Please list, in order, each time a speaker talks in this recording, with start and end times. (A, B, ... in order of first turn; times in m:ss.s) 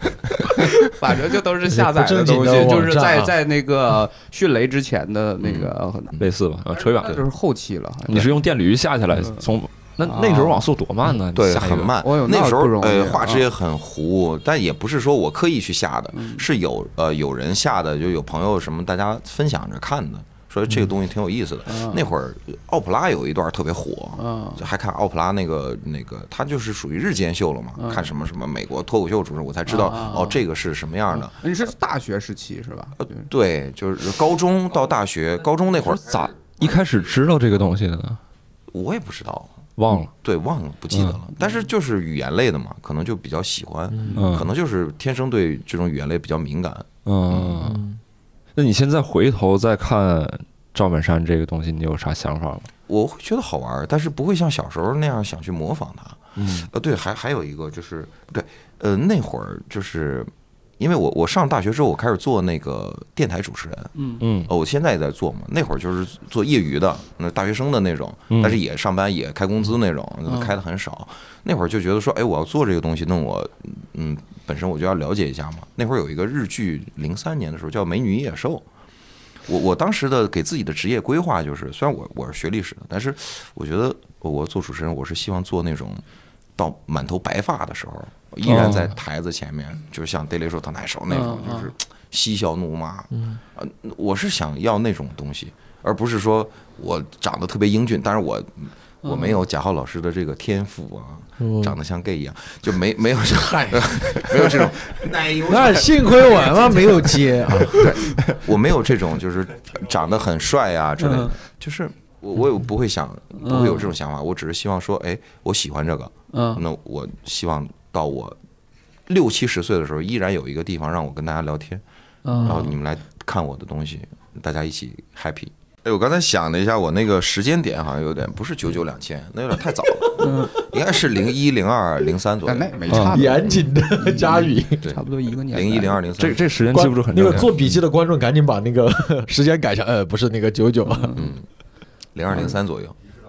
0:00.4-0:06.1 A
0:01.7-0:03.3 B
0:05.4-0:06.3 C
0:06.2-0:07.2 D
0:06.7-0:08.3 A
0:08.1-0:11.9 D
0:10.0-0:10.6 A
0:11.3-0:31.3 C
0:12.0-0:13.5 A
0:16.1-0:16.4 A
0:21.7-0:22.1 A
0:24.2-0:24.7 A
0:27.8-0:28.1 A
0:29.7-0:30.4 A
0:31.1-0:33.3 A
0:33.0-0:36.0 C
0:36.0-0:38.2 D
0:38.7-0:39.5 C
0:39.8-0:40.1 D
0:40.0-0:47.7 C
0:40.9-0:41.2 D
0:43.9-0:44.2 B
0:44.0-0:44.3 A
0:44.2-0:44.5 D
0:47.0-0:47.8 D
0:47.6-0:48.0 B
0:48.6-0:52.7 D
0:52.9-1:03.9 C
0:56.4-0:56.7 D
1:04.0-1:04.2 A
1:04.2-1:04.5 D
1:04.5-1:18.6 C
1:08.3-1:08.6 D
1:10.3-1:10.6 A
1:19.5-1:26.0 C
1:26.6-1:58.4 C
1:28.4-1:28.9 D
1:31.1-1:31.7 A
1:33.1-1:33.4 B
1:39.0-1:39.4 A
1:41.4-1:41.8 B
1:43.2-1:44.8 B
1:45.5-1:47.9 B
1:47.9-1:48.4 D
1:51.0-1:51.3 A
1:53.4-1:53.9 A
1:56.3-1:56.6 A
1:59.1-2:01.8 C
2:02.2-2:02.8 A
2:02.4-2:13.0 C
2:10.2-2:10.6 A
2:12.4-2:16.0 A
2:12.9-2:13.2 D
2:13.1-2:14.9 B
2:15.5-2:16.4 C
2:16.2-2:17.6 D
2:16.7-2:21.2 B
2:20.8-2:21.3 A
2:21.2-2:21.5 C
2:22.1-2:23.0 C